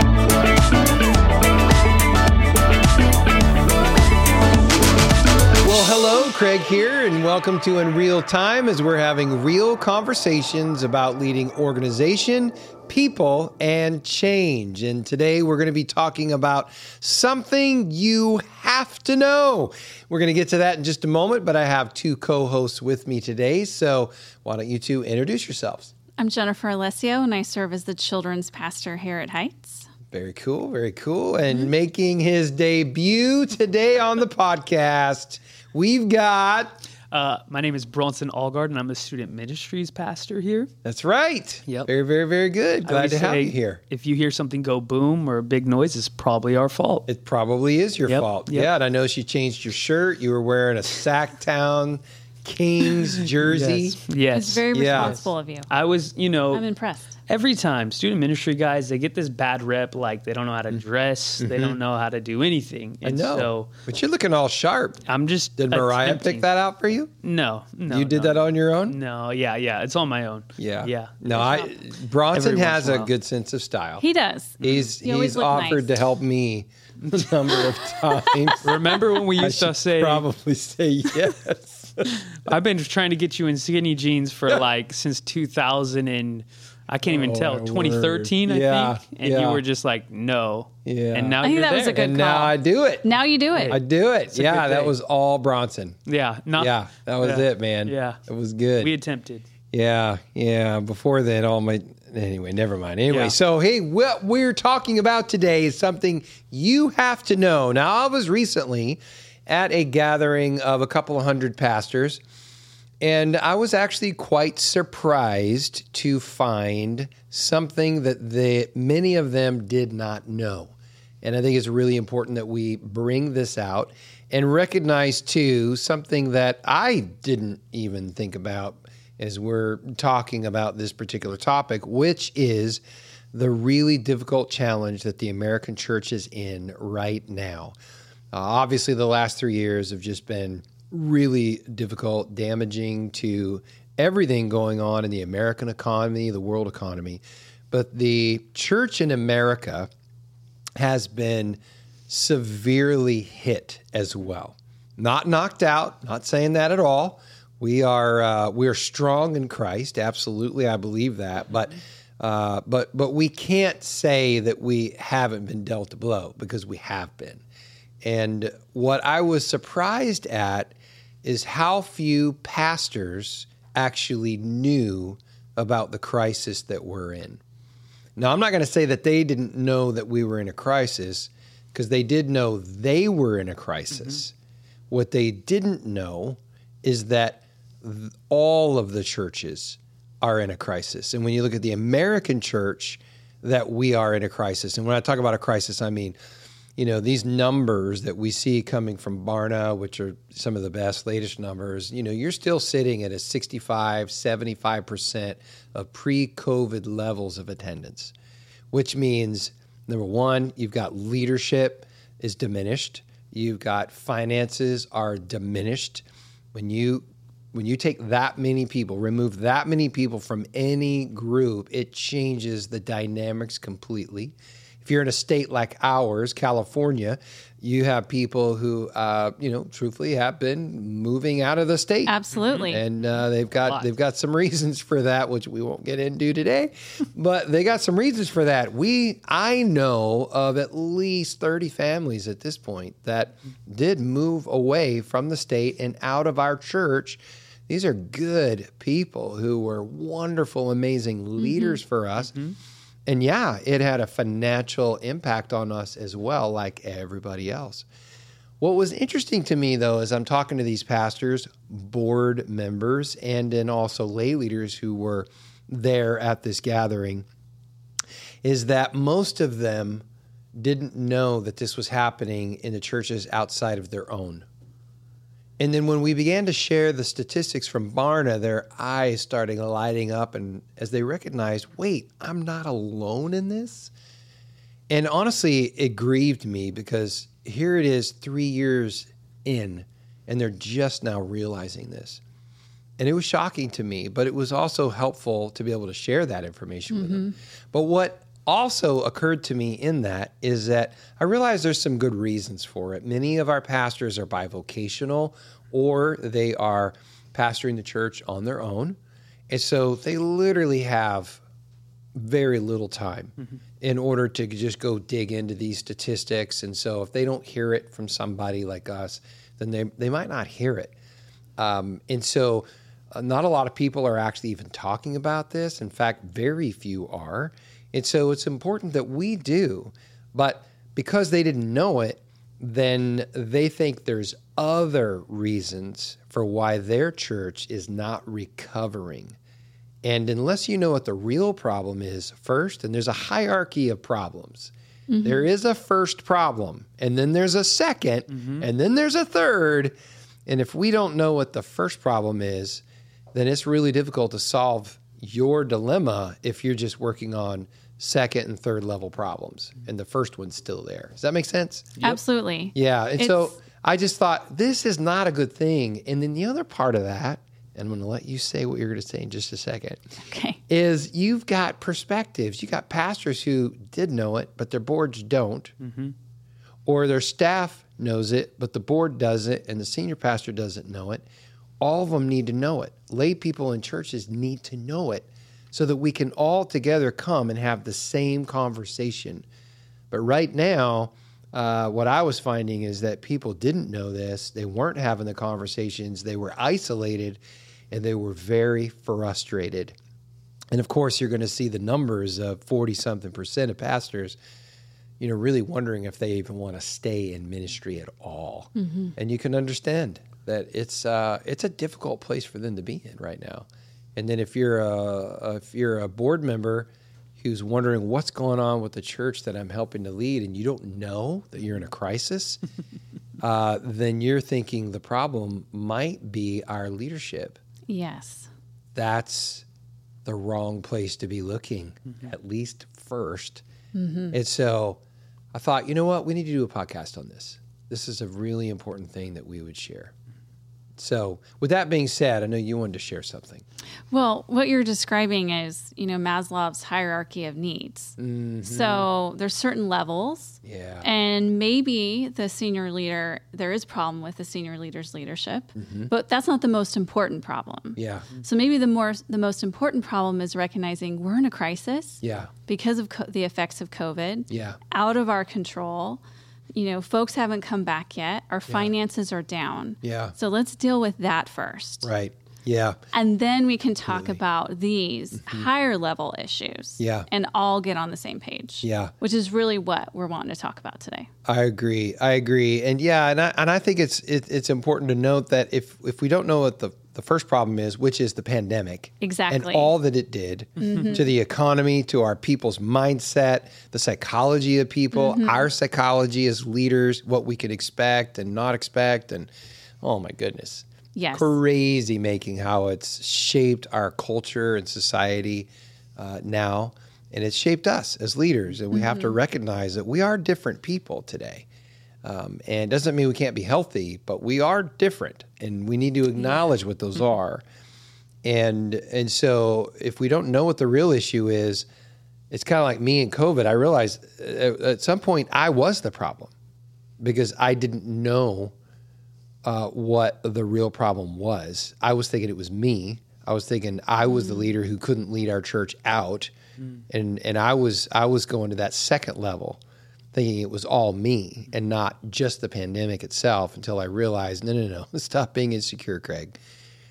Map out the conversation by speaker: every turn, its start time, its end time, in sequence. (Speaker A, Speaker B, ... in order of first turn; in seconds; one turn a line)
Speaker A: 5.6-25.9
Speaker B: 26.2-29.9
Speaker A: 30.1-36.8
Speaker C: 37.1-40.7
Speaker A: 40.8-43.8
Speaker C: 42.9-47.1
Speaker A: 47.1-54.0
Speaker C: 48.1-48.7
Speaker C: 53.4-56.6
Speaker B: 54.3-55.7
Speaker A: 54.7-55.2
Speaker B: 56.5-57.2
Speaker C: 57.3-63.7
Speaker A: 61.4-61.8
Speaker A: 63.0-65.0
Speaker C: 65.1-66.5
Speaker A: 65.6-67.1
Speaker C: 67.2-71.7
Speaker A: 67.9-69.0
Speaker A: 70.6-74.0
Speaker C: 72.3-73.1
Speaker B: 74.0-76.0
Speaker C: 74.6-74.9
Speaker A: 74.6-82.5
Speaker C: 78.6-80.3
Speaker C: 82.3-92.1
Speaker A: 87.1-89.6
Speaker A: 90.8-93.1
Speaker B: 91.4-93.8
Speaker C: 93.5-93.8
Speaker A: 93.7-96.0
Speaker C: 94.3-95.0
Speaker C: 96.1-98.2
Speaker A: 96.6-98.9
Speaker C: 98.8-99.5
Speaker A: 99.7-112.2
Speaker C: 103.1-103.3
Speaker A: 113.0-132.8
Speaker A: 133.3-137.8
Speaker A: 138.3-149.9
Speaker A: 150.8-167.4
Speaker A: 168.0-177.4
Speaker A: 178.2-184.3
Speaker A: 184.9-196.2
Speaker A: 196.8-208.1
Speaker A: 208.7-232.1
Speaker B: 232.1-232.8
Speaker C: 232.3-232.8
Speaker A: 232.7-252.3
Speaker B: 251.4-251.8
Speaker C: 252.2-252.6
Speaker A: 253.1-257.9
Speaker A: 258.6-267.2
Speaker A: 268.4-270.0
Speaker A: 270.6-274.4
Speaker A: 275.6-283.9
Speaker A: 284.9-292.2
Speaker A: 293.0-309.0
Speaker B: 296.9-297.3
Speaker A: 309.5-311.4
Speaker A: 312.1-320.9
Speaker A: 321.6-339.4
Speaker A: 340.0-344.7
Speaker B: 345.1-345.5
Speaker A: 345.2-349.9
Speaker C: 348.3-348.6
Speaker A: 350.5-352.8
Speaker A: 353.3-361.9
Speaker B: 362.0-363.5
Speaker A: 362.7-370.0
Speaker B: 370.2-370.6
Speaker A: 370.7-375.7
Speaker C: 375.8-376.1
Speaker A: 376.9-381.2
Speaker A: 381.8-389.4
Speaker A: 390.1-397.4
Speaker A: 397.9-399.9
Speaker A: 400.7-404.4
Speaker A: 405.2-422.6
Speaker B: 408.8-409.1
Speaker A: 423.4-427.6
Speaker B: 427.9-428.5
Speaker A: 428.9-429.6
Speaker A: 430.2-433.6
Speaker B: 433.9-434.4
Speaker A: 434.3-435.0
Speaker A: 435.5-440.1
Speaker A: 441.0-443.6
Speaker B: 444.1-466.2
Speaker A: 448.2-449.1
Speaker A: 450.6-451.1
Speaker A: 455.8-456.1
Speaker A: 458.0-458.3
Speaker A: 462.2-462.5
Speaker A: 464.5-464.8
Speaker B: 466.7-472.1
Speaker A: 470.0-470.4
Speaker A: 472.0-473.0
Speaker B: 473.1-481.3
Speaker A: 474.1-474.4
Speaker A: 475.4-475.7
Speaker A: 477.0-477.3
Speaker A: 478.8-479.1
Speaker A: 481.5-499.5
Speaker B: 489.2-489.9
Speaker B: 490.8-491.2
Speaker B: 495.1-495.6
Speaker A: 500.0-511.7
Speaker B: 501.1-501.5
Speaker B: 508.9-509.4
Speaker A: 512.2-517.6
Speaker A: 518.4-521.9
Speaker A: 522.5-526.5
Speaker A: 527.2-528.7
Speaker A: 529.6-536.5
Speaker B: 534.3-534.7
Speaker A: 537.1-539.8
Speaker A: 540.3-546.6